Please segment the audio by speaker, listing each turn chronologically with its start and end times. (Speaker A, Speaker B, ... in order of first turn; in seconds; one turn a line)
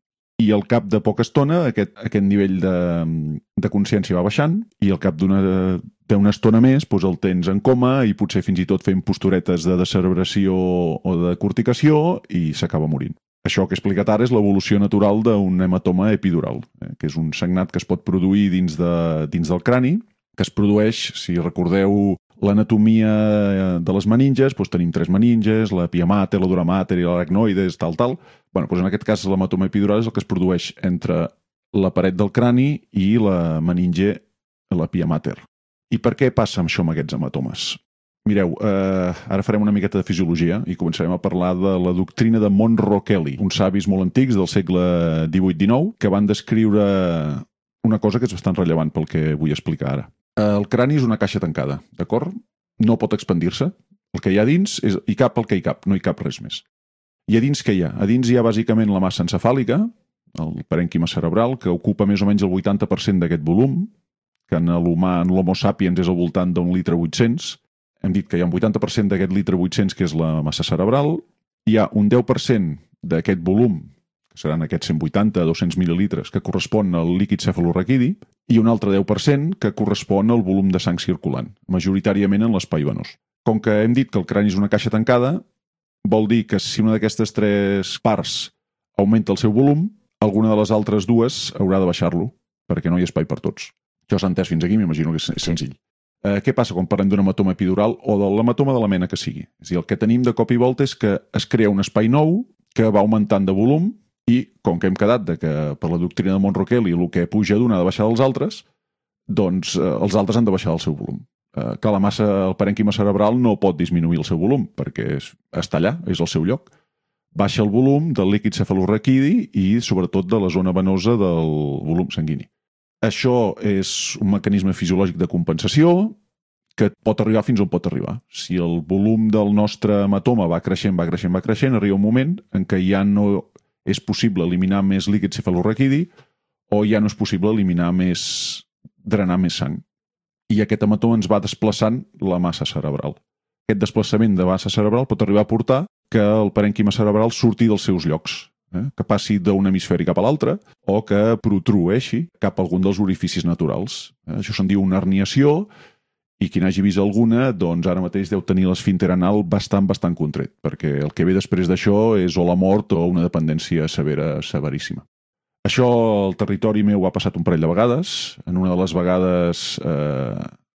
Speaker A: 0.4-56.6
Speaker A: 57.3-63.9
Speaker A: 64.5-85.4
Speaker A: 86.0-108.6
Speaker A: 109.3-116.7
Speaker A: 117.3-122.5
Speaker A: 123.0-126.2
Speaker A: 126.8-136.1
Speaker A: 136.7-139.8
Speaker A: 140.5-155.7
Speaker A: 156.4-165.0
Speaker A: 165.6-170.5